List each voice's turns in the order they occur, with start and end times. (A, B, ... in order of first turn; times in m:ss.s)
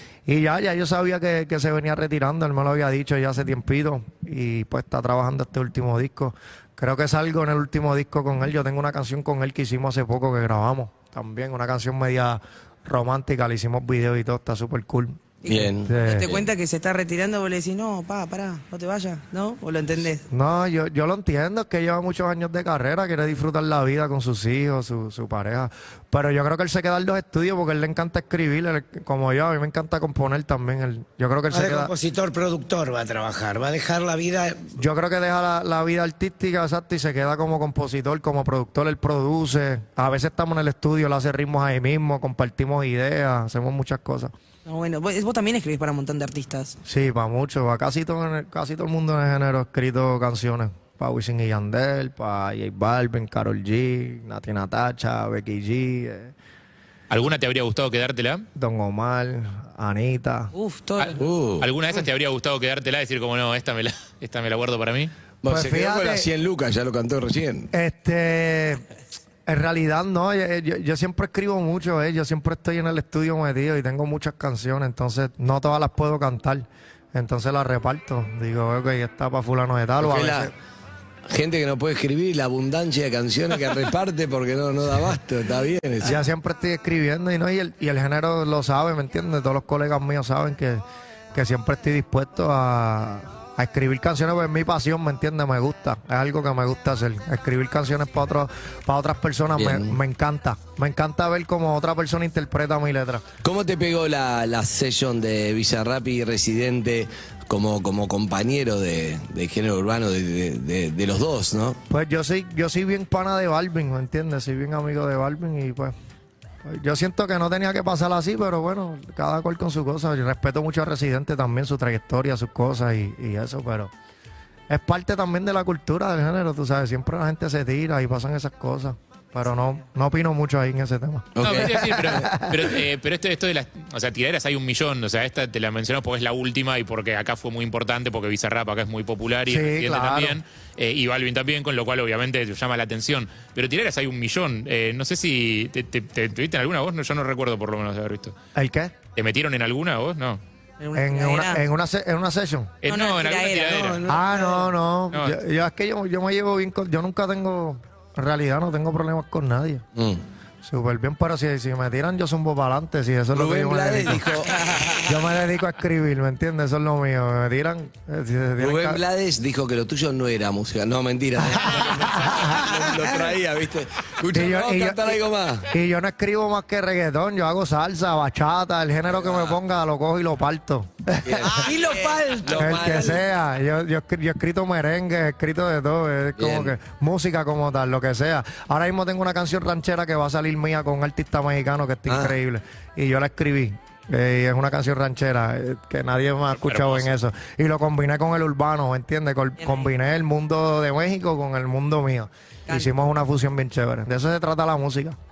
0:00.3-0:16.3 A
0:15.4-0:20.2 B
0:15.5-0:16.4 C
0:20.3-0:31.9 A
0:31.5-0:34.7 D
0:34.8-0:44.3 A
0:44.6-0:46.8 B
0:46.8-0:56.3 A
0:57.1-0:58.4 E
0:58.6-1:00.5 A
1:00.5-1:01.2 B
1:01.0-1:05.1 E
1:01.2-1:01.7 C
1:05.4-1:07.7 C
1:05.5-1:06.3 A
1:07.7-1:08.8 A
1:09.4-1:20.5 A
1:20.0-1:20.5 C
1:21.3-1:26.2 C
1:26.0-1:30.8 A
1:31.3-1:43.2 A
1:39.6-1:40.0 C
1:43.4-1:51.8 C
1:51.9-1:55.9 A
1:56.6-2:03.9 A
2:04.7-2:12.7 A
2:11.3-2:12.3 C
2:11.4-2:28.3 E
2:19.4-2:20.4 A
2:28.5-2:28.9 A
2:29.2-2:30.4 E
2:30.8-2:31.6 B
2:30.9-2:32.7 A
2:32.8-2:34.0 E
2:32.8-2:33.9 B
2:33.7-2:34.7 D
2:34.1-2:39.8 A
2:35.1-2:35.4 E
2:39.9-2:40.2 C
2:40.6-2:44.2 A
2:43.3-2:45.0 C
2:45.0-2:49.0 A
2:48.6-2:55.6 C
2:51.4-2:52.8 A
2:54.3-3:01.6 A
2:59.1-2:59.6 C
3:01.2-3:01.7 C
3:01.5-3:02.2 B
3:01.6-3:03.2 D
3:02.4-3:03.1 C
3:02.6-3:25.2 A
3:06.4-3:06.7 C
3:12.1-3:12.4 C
3:16.5-3:17.1 E
3:19.6-3:19.9 B